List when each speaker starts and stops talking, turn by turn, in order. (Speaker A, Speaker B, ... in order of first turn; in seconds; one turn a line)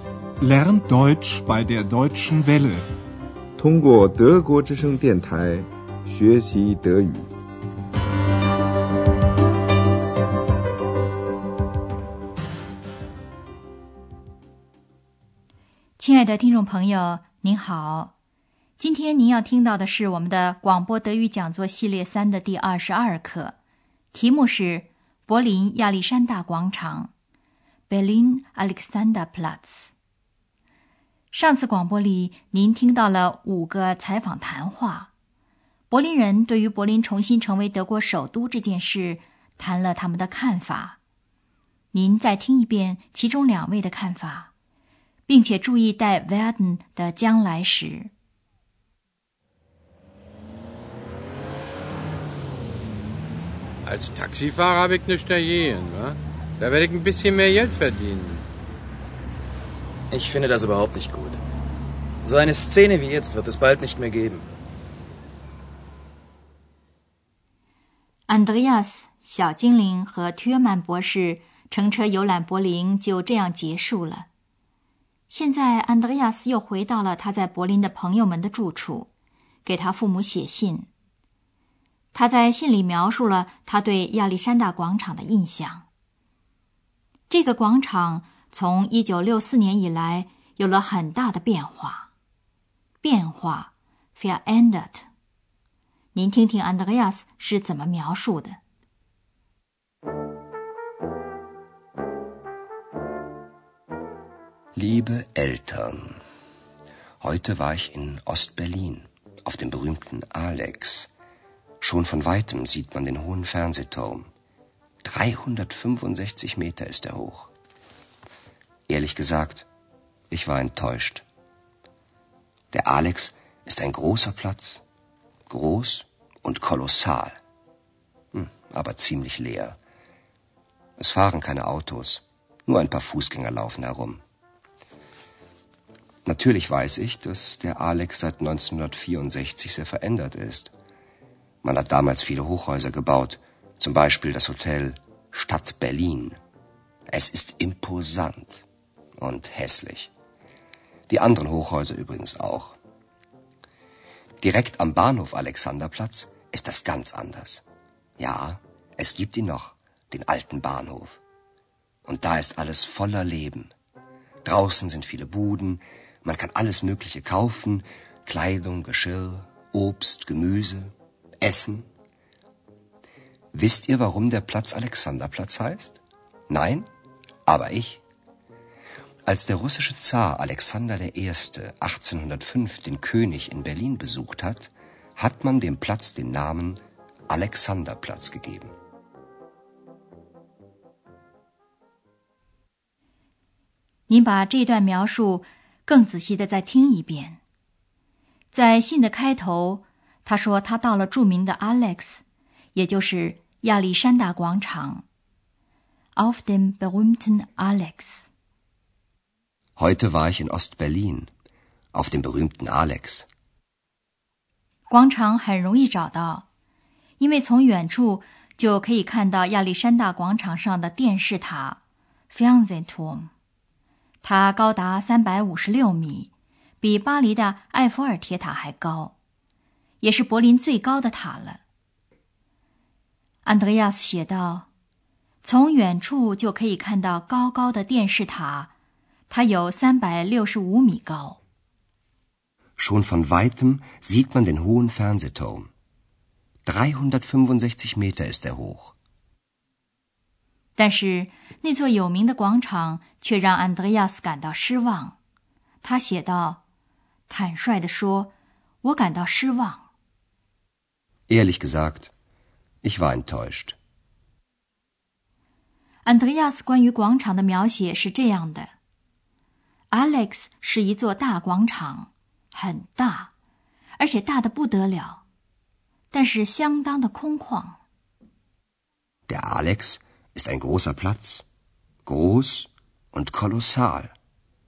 Speaker A: 0.4-2.9
Speaker B: 3.6-7.3
Speaker C: 16.0-18.1
Speaker C: 18.8-23.6
Speaker C: 24.1-27.1
Speaker C: 27.9-29.9
Speaker C: 31.3-35.1
Speaker C: 35.9-41.0
Speaker C: 41.9-44.5
Speaker C: 45.3-48.1
Speaker D: 54.0-56.1
Speaker D: 56.7-58.2
Speaker E: 60.1-61.4
Speaker E: 62.2-64.5
Speaker C: 68.3-74.3
Speaker C: 75.3-79.1
Speaker C: 79.7-80.9
Speaker C: 82.1-85.9
Speaker C: 87.3-92.1
Speaker C: 93.0-95.1
Speaker C: 96.1-98.6
Speaker F: 104.8-106.2
Speaker F: 107.2-111.1
Speaker F: 111.8-114.3
Speaker F: 115.0-117.5
Speaker F: 118.9-119.7
Speaker F: 120.3-121.3
Speaker F: 122.7-124.8
Speaker F: 125.5-127.4
Speaker F: 128.3-129.8
Speaker F: 131.0-134.2
Speaker F: 136.2-140.7
Speaker F: 141.6-146.4
Speaker F: 147.1-148.7
Speaker F: 149.2-150.1
Speaker F: 151.1-152.8
Speaker F: 154.4-157.6
Speaker F: 158.2-161.2
Speaker F: 162.1-163.7
Speaker F: 164.4-171.9
Speaker F: 173.5-176.9
Speaker F: 177.5-178.0
Speaker F: 179.3-188.7
Speaker C: 194.1-197.4
Speaker C: 198.5-202.2
Speaker C: 202.7-205.0
Speaker C: 206.2-208.3
Speaker F: 209.8-211.3
Speaker F: 211.9-213.3
Speaker C: 214.9-216.5
Speaker C: 217.2-221.8
Speaker C: 222.3-223.3
Speaker C: 224.2-226.3
Speaker C: 226.8-229.1
Speaker C: 230.0-231.6
Speaker C: 233.4-234.7
Speaker C: 235.4-238.7
Speaker C: 239.3-241.4
Speaker F: 242.8-245.7
Speaker F: 246.7-248.9
Speaker C: 250.8-255.2
Speaker C: 255.8-256.6
Speaker C: 257.3-258.3
Speaker C: 258.8-259.9
Speaker F: 261.3-262.1
Speaker F: 262.8-263.8
Speaker C: 266.0-268.7
Speaker C: 269.9-273.3
Speaker C: 274.0-275.2
Speaker C: 276.1-277.8
Speaker F: 279.3-281.4
Speaker F: 282.1-284.1